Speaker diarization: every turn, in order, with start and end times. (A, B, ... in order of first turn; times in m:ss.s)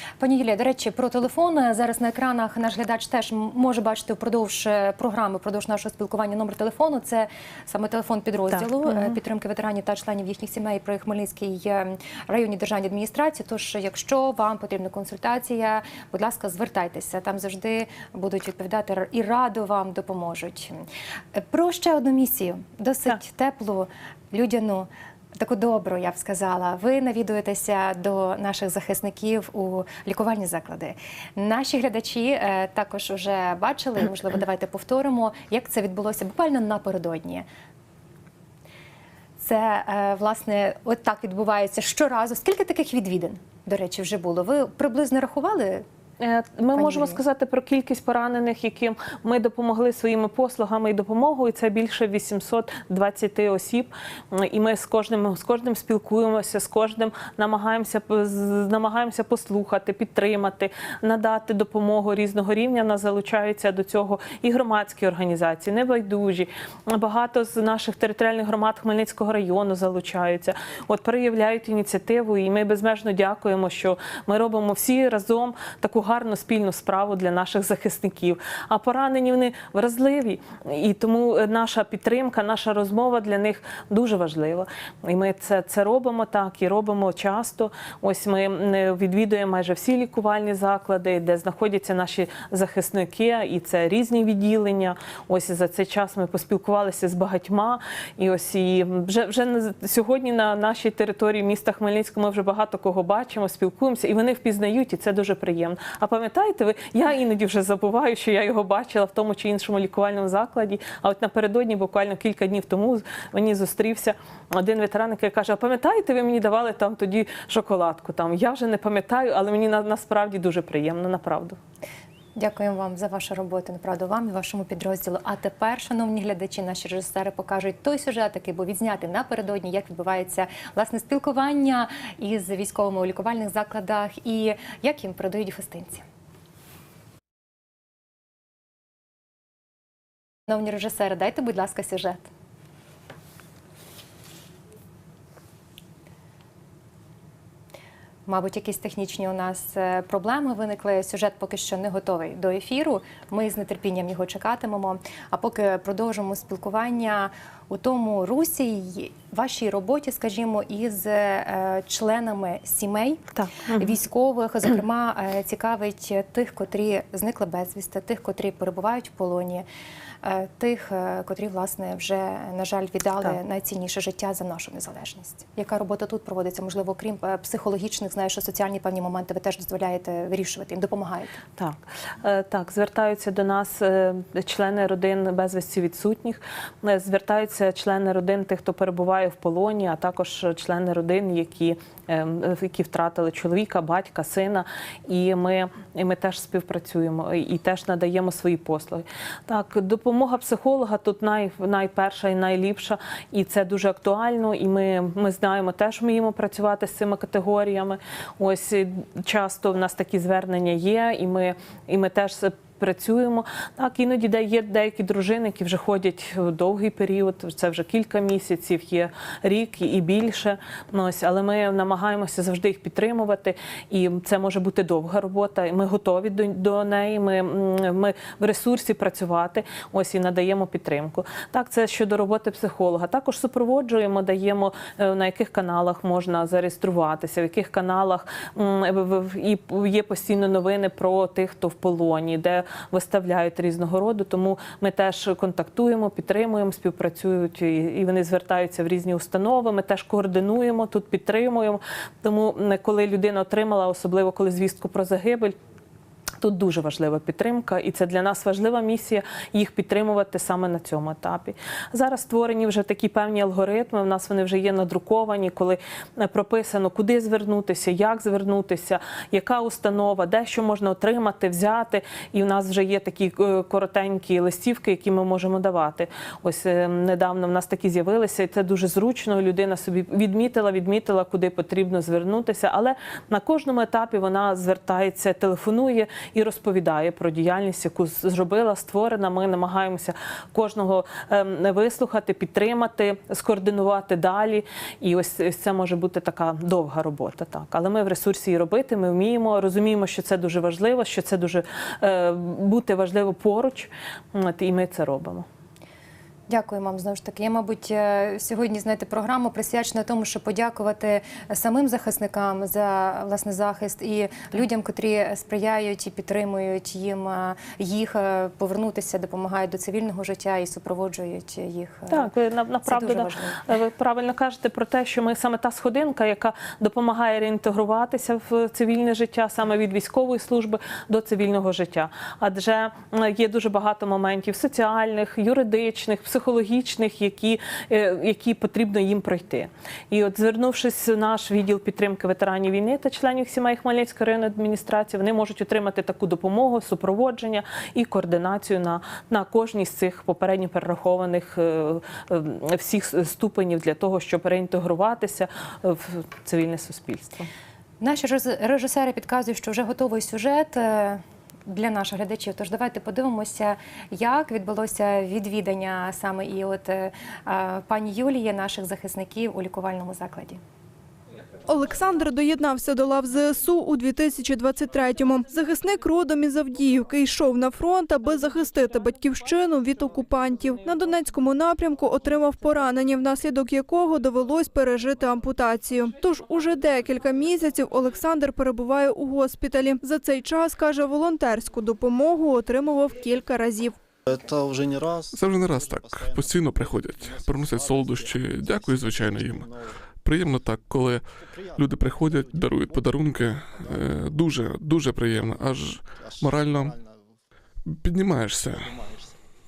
0:00.2-0:20.8 A
0:08.5-0:09.2 B
0:21.3-0:37.4 A
0:39.4-0:45.8 A
0:46.2-2:01.6 B
0:46.7-0:47.2 A
2:02.4-2:16.0 A
2:20.5-2:22.2 A
2:28.2-2:43.2 A
2:43.4-2:43.9 B
2:43.7-2:49.6 A
2:50.2-3:01.4 A
3:01.6-4:15.6 B
4:16.4-5:05.4 B
5:06.5-5:22.3 A
5:22.1-5:57.5 B
5:22.8-5:23.6 A
5:58.0-6:10.6 A
6:11.6-6:33.9 C
6:34.2-6:40.0 D
6:35.3-6:47.0 E
6:41.4-6:44.4 D
6:46.1-6:47.4 D
6:47.8-6:49.0 E
6:48.8-6:49.4 D